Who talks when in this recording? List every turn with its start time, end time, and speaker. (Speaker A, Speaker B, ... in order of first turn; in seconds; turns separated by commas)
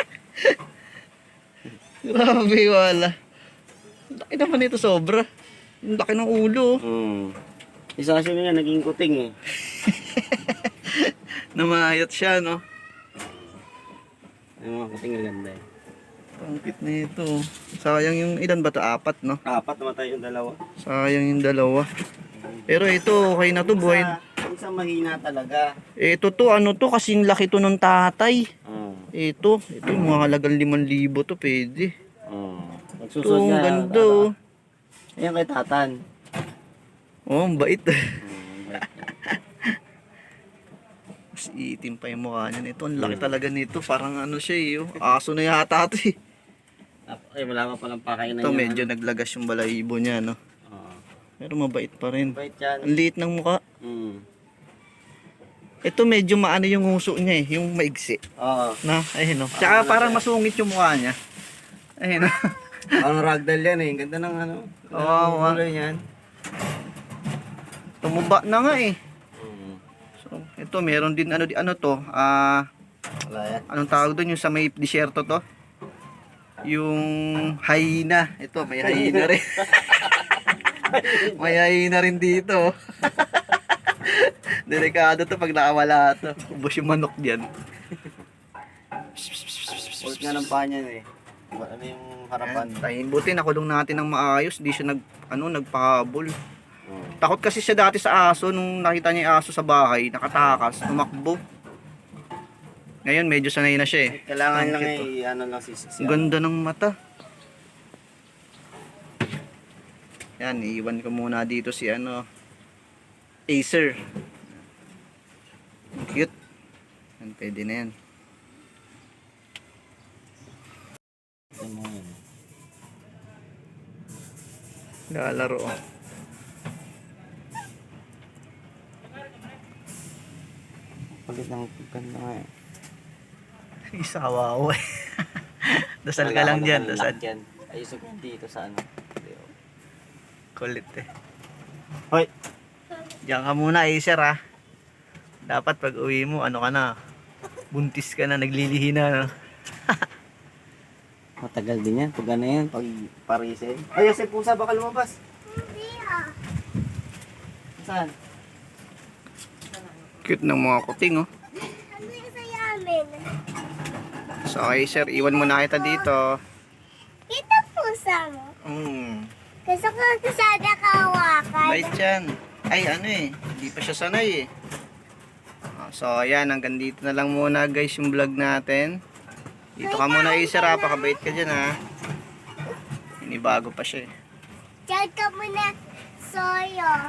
Speaker A: 2.0-3.1, Speaker A: 4.2-5.2, Speaker A: 5.9-6.7, Speaker B: 6.9-7.3, Speaker B: 8.0-9.3, Speaker A: 9.7-12.6, Speaker B: 14.6-15.6, Speaker A: 16.4-19.4, Speaker B: 19.5-20.6, Speaker A: 20.8-21.9, Speaker B: 22.4-22.8, Speaker A: 22.7-24.1, Speaker B: 23.7-25.6, Speaker A: 26.0-28.4, Speaker B: 28.7-29.1, Speaker A: 29.1-31.9, Speaker B: 32.3-34.3, Speaker A: 33.2-34.3, Speaker B: 35.2-35.9, Speaker A: 37.3-37.9, Speaker B: 38.3-39.0, Speaker A: 39.1-39.4, Speaker A: 41.4-46.1, Speaker B: 43.0-43.4, Speaker B: 47.1-48.9, Speaker A: 48.4-50.4, Speaker B: 50.7-51.0, Speaker A: 51.4-53.6, Speaker B: 52.3-52.9, Speaker B: 53.8-54.2, Speaker A: 55.8-58.2, Speaker B: 58.4-58.8, Speaker A: 58.8-61.1, Speaker B: 59.5-60.2, Speaker A: 62.0-62.3, Speaker B: 63.0-66.0, Speaker A: 64.9-65.6, Speaker A: 68.0-69.0, Speaker B: 69.4-69.8, Speaker A: 70.2-72.6, Speaker B: 73.3-73.6, Speaker A: 73.7-75.4, Speaker A: 76.6-80.1, Speaker B: 78.8-79.3, Speaker B: 80.9-81.5, Speaker A: 81.0-87.5, Speaker A: 89.2-90.5, Speaker B: 90.0-92.8, Speaker A: 92.4-96.3, Speaker B: 96.9-97.2, Speaker A: 97.2-101.4, Speaker A: 103.0-105.1, Speaker B: 104.1-106.3, Speaker A: 106.0-106.9, Speaker A: 110.4-112.2, Speaker A: 113.5-113.9, Speaker A: 116.0-116.3, Speaker A: 117.2-117.9, Speaker B: 121.6-122.2, Speaker A: 125.1-125.7, Speaker B: 131.2-132.5, Speaker A: 133.9-137.2, Speaker B: 136.2-139.5, Speaker A: 140.6-141.1, Speaker A: 143.3-144.3, Speaker A: 145.5-146.9, Speaker A: 147.7-149.3, Speaker B: 151.4-155.2, Speaker B: 157.8-158.1, Speaker A: 160.2-161.3, Speaker A: 164.4-166.3, Speaker C: 165.1-166.1, Speaker A: 168.7-169.3, Speaker C: 169.7-170.6, Speaker A: 171.6-174.5, Speaker A: 175.8-178.9, Speaker A: 179.8-181.7, Speaker C: 179.8-180.9, Speaker A: 183.2-184.1